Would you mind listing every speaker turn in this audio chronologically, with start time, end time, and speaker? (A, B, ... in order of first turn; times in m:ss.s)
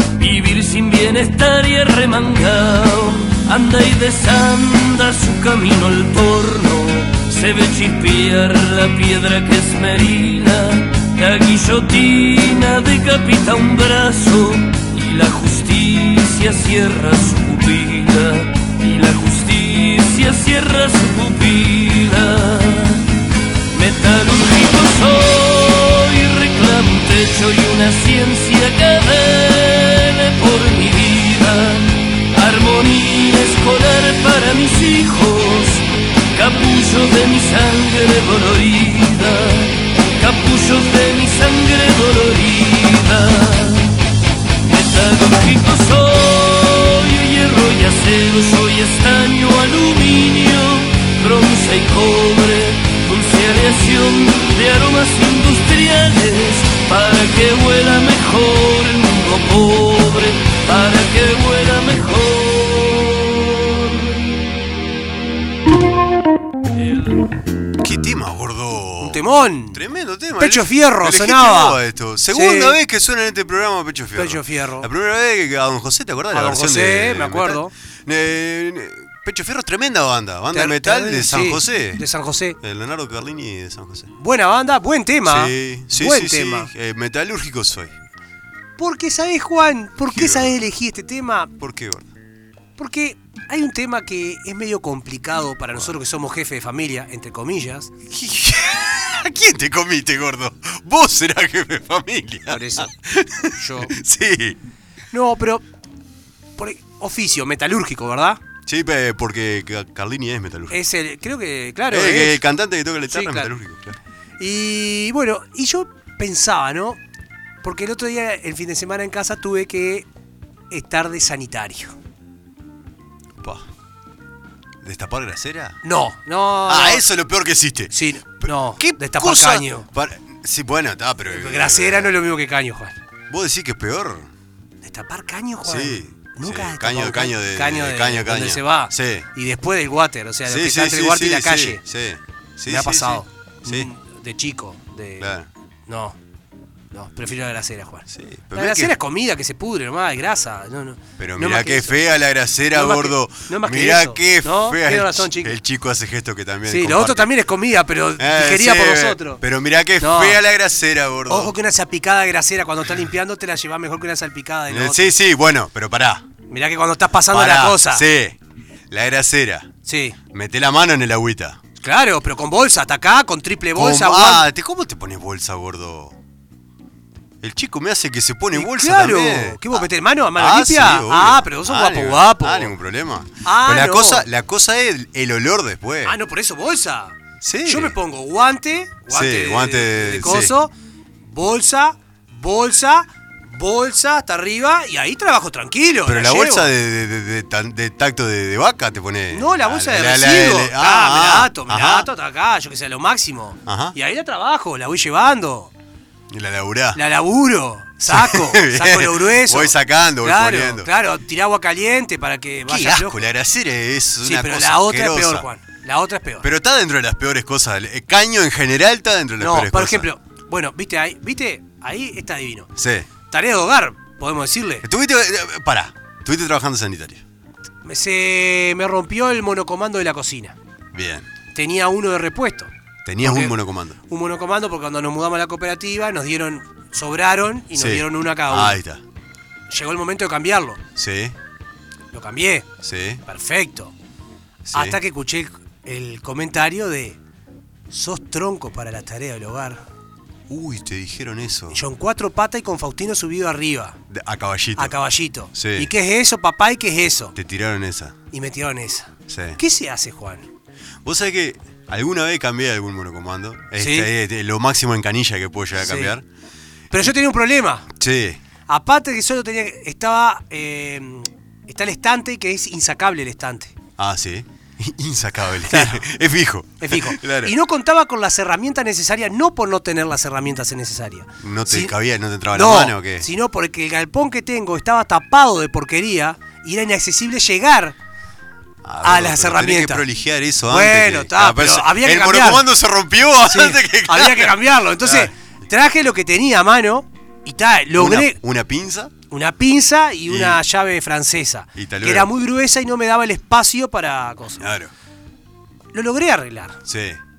0:00.2-0:23.0 A
0:23.7-0:43.9 A
0:44.6-1:04.2 A
1:06.8-1:07.2 A
1:07.8-1:22.0 B
1:09.0-1:09.8 C
1:10.4-1:11.8 C
1:12.3-1:12.8 C
1:14.1-1:14.9 C
1:16.3-1:17.7 C
1:20.5-1:22.6 C
1:22.6-1:24.1 B
1:24.2-1:26.7 C
1:25.2-1:28.0 B
1:28.8-1:31.5 C
1:30.1-1:30.5 B
1:31.6-1:32.1 B
1:32.8-1:37.9 C
1:38.1-1:44.6 B
1:42.5-1:42.9 C
1:43.5-1:43.9 C
1:45.1-1:45.6 C
1:46.6-1:48.4 C
1:48.6-1:50.8 B
1:50.7-1:52.4 C
1:51.9-1:54.0 B
1:53.1-1:53.5 C
1:54.4-1:57.0 C
1:57.6-2:00.0 C
2:00.7-2:02.0 C
2:03.4-2:03.6 B
2:04.8-2:05.8 B
2:05.8-2:07.0 C
2:06.6-2:12.2 B
2:07.9-2:09.8 C
2:11.3-2:13.0 C
2:13.3-2:14.3 B
2:14.8-2:21.8 C
2:15.6-2:19.3 B
2:20.4-2:23.9 B
2:22.7-2:25.3 C
2:25.2-2:25.5 B
2:25.9-2:26.2 C
2:26.9-2:32.0 C
2:28.1-2:29.0 B
2:31.2-2:37.3 B
2:32.7-2:35.5 C
2:36.7-2:39.4 C
2:38.2-2:41.5 B
2:40.0-2:40.4 C
2:41.3-2:45.1 C
2:44.7-2:46.2 B
2:46.5-2:48.0 C
2:47.3-2:48.4 B
2:48.9-2:49.7 B
2:49.8-2:50.2 C
2:50.3-2:51.6 B
2:51.8-2:54.5 C
2:53.7-2:56.2 B
2:57.4-3:06.2 B
2:58.5-3:02.7 C
3:03.4-3:04.2 C
3:06.0-3:16.7 C
3:07.4-3:08.0 B
3:09.1-3:10.5 B
3:16.0-3:22.1 B
3:19.3-3:25.7 C
3:23.6-3:24.0 B
3:26.3-3:27.0 B
3:26.9-3:33.3 C
3:28.1-3:30.9 B
3:32.7-3:35.5 B
3:34.2-3:36.4 C
3:36.4-3:40.1 B
3:39.4-3:42.7 C
3:42.8-3:43.1 B
3:43.3-3:44.8 C
3:44.8-3:47.2 B
3:47.8-3:50.6 C
3:50.9-3:51.3 B
3:51.5-3:53.6 C
3:53.0-3:54.0 B
3:54.1-3:58.8 C
3:57.7-3:59.0 B
3:59.7-4:00.8 C
4:01.0-4:01.4 B
4:02.1-4:02.7 C
4:02.8-4:03.2 B
4:03.2-4:03.9 C
4:04.6-4:05.0 B
4:04.7-4:07.2 C
4:07.9-4:09.8 C
4:10.5-4:11.8 B
4:11.7-4:14.0 C
4:14.1-4:15.0 B
4:14.8-4:17.3 C
4:15.5-4:15.9 B
4:17.3-4:18.2 B
4:18.3-4:20.5 C
4:19.3-4:19.6 B
4:21.0-4:26.2 B
4:23.8-4:24.1 C
4:25.8-4:26.1 C
4:26.9-4:27.9 C
4:28.0-4:28.4 B
4:28.7-4:33.7 C
4:34.0-4:37.5 B
4:35.7-4:36.1 C
4:36.8-4:41.9 C
4:41.4-4:43.3 B
4:42.5-4:47.9 C
4:48.8-4:55.3 B
4:49.0-4:50.0 C
4:50.7-4:52.6 C
4:53.4-4:58.4 C
4:58.0-4:59.1 B
4:59.3-5:04.6 C
5:00.3-5:00.6 B
5:01.8-5:02.3 B
5:04.6-5:04.9 B
5:05.9-5:06.8 C
5:06.8-5:07.2 B